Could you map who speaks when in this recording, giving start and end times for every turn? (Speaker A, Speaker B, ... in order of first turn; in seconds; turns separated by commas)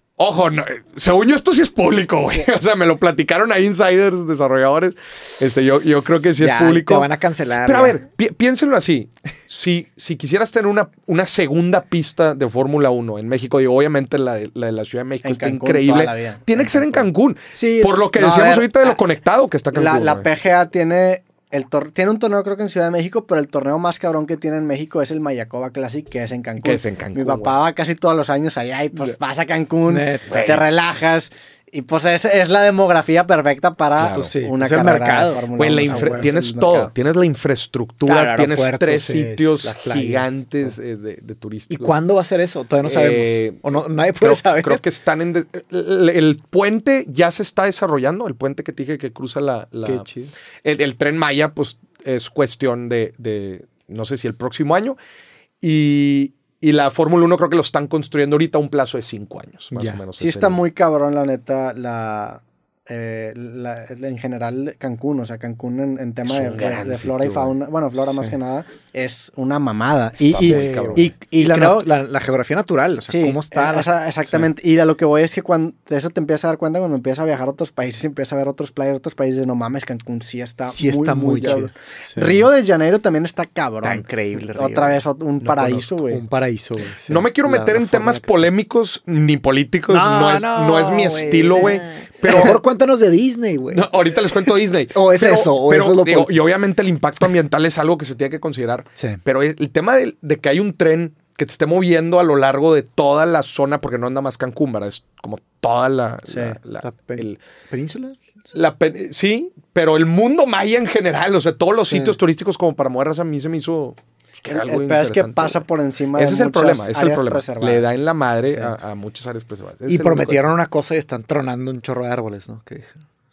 Speaker A: 0.2-7.1, Speaker B: 6.4-8.0, Speaker A: 7.6-20.3, Speaker C: 15.2-17.1, Speaker B: 17.5-18.1, Speaker C: 18.1-19.0, Speaker C: 19.7-36.9, Speaker A: 26.6-27.6, Speaker B: 29.9-30.6, Speaker A: 30.3-30.7, Speaker A: 34.0-34.3, Speaker B: 34.1-36.3, Speaker A: 35.5-42.0, Speaker B: 38.0-40.7, Speaker B: 41.7-44.8, Speaker A: 42.8-50.1, Speaker B: 49.8-50.3, Speaker A: 50.6-55.0, Speaker A: 55.6-60.6, Speaker B: 59.7-60.0, Speaker C: 60.2-71.9, Speaker A: 66.2-67.5, Speaker B: 68.0-68.3, Speaker A: 70.2-71.1, Speaker B: 70.3-74.5, Speaker C: 73.1-86.2, Speaker B: 80.6-82.4, Speaker B: 83.8-85.0, Speaker A: 85.4-85.9, Speaker B: 86.1-88.4, Speaker A: 87.1-92.6, Speaker B: 89.9-96.4, Speaker A: 93.7-107.4, Speaker C: 106.3-106.6, Speaker B: 106.8-108.2, Speaker A: 108.5-115.6, Speaker C: 114.5-117.9, Speaker A: 116.1-120.5, Speaker B: 119.9-122.9